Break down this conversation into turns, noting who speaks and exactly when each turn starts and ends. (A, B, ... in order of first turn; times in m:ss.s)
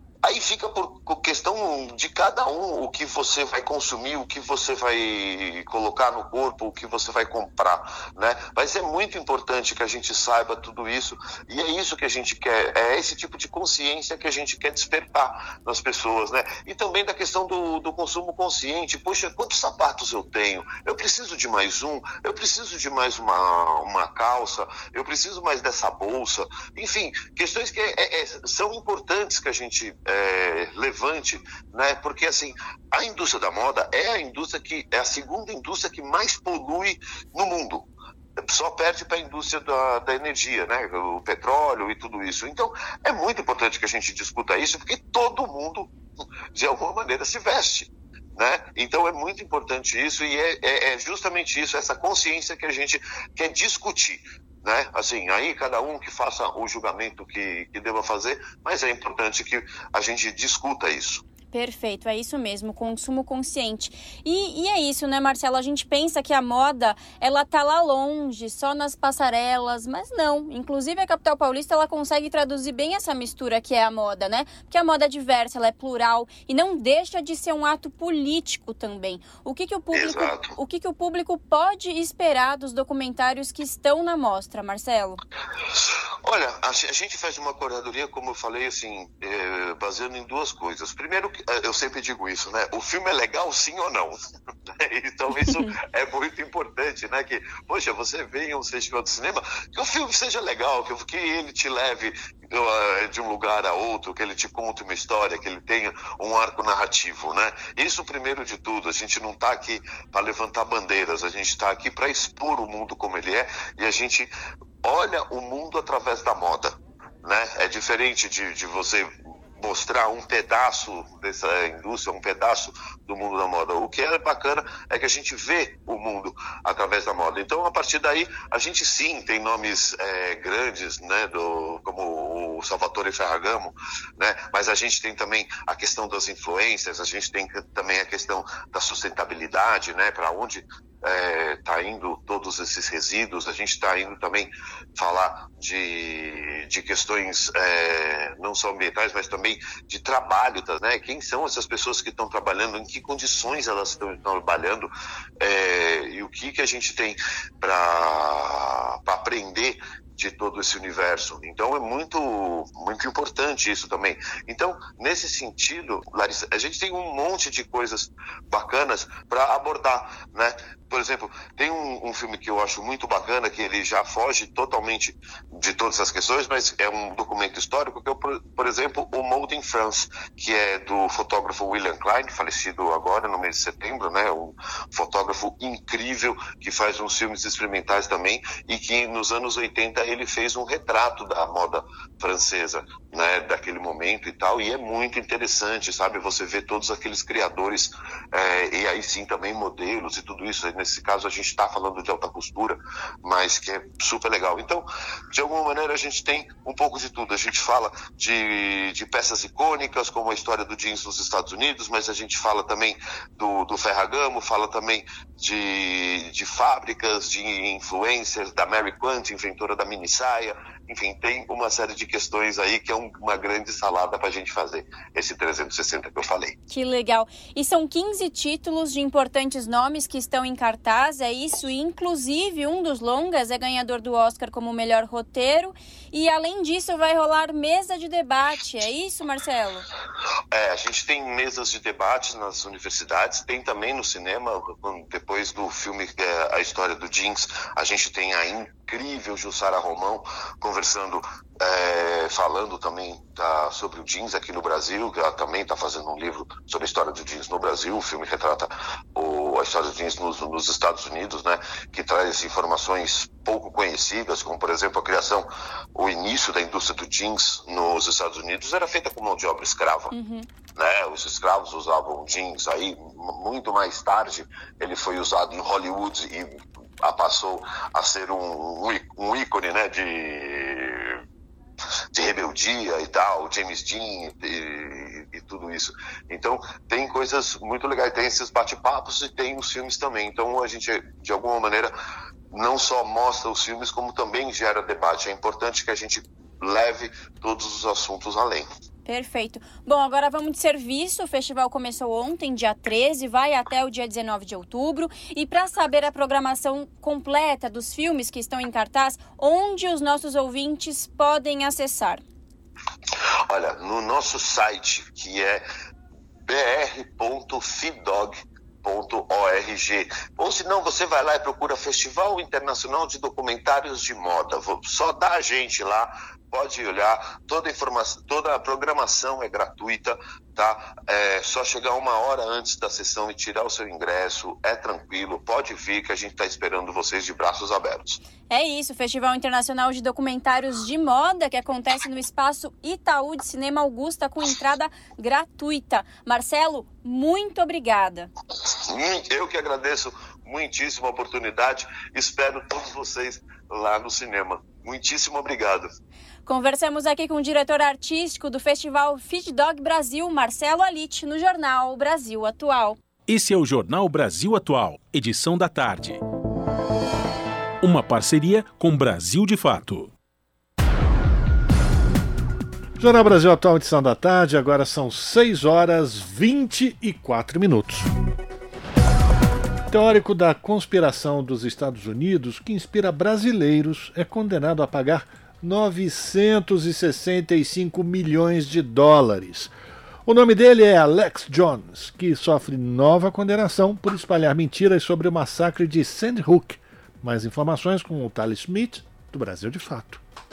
0:00.2-0:37.8 A
0:38.5-0:45.9 A
0:46.6-1:01.2 A
1:01.5-1:25.2 B
1:19.9-1:20.5 A
1:26.2-1:34.1 A
1:34.8-1:54.3 A
1:35.4-1:35.7 B
1:54.8-2:34.9 A
2:35.4-3:46.5 A
3:46.7-3:59.9 B
4:00.5-4:30.1 A
4:30.1-4:30.5 B
4:30.8-4:41.2 A
4:42.1-4:51.9 A
4:52.5-4:58.7 A
4:59.1-5:12.2 B
5:13.5-5:15.6 A
5:16.5-5:38.2 A
5:38.5-5:48.3 B
5:48.9-5:55.9 A
5:56.5-6:03.0 B
6:03.3-6:06.2 C
6:07.8-6:10.1 C
6:13.0-6:18.1 D
6:19.9-6:29.7 D
6:30.3-6:40.2 D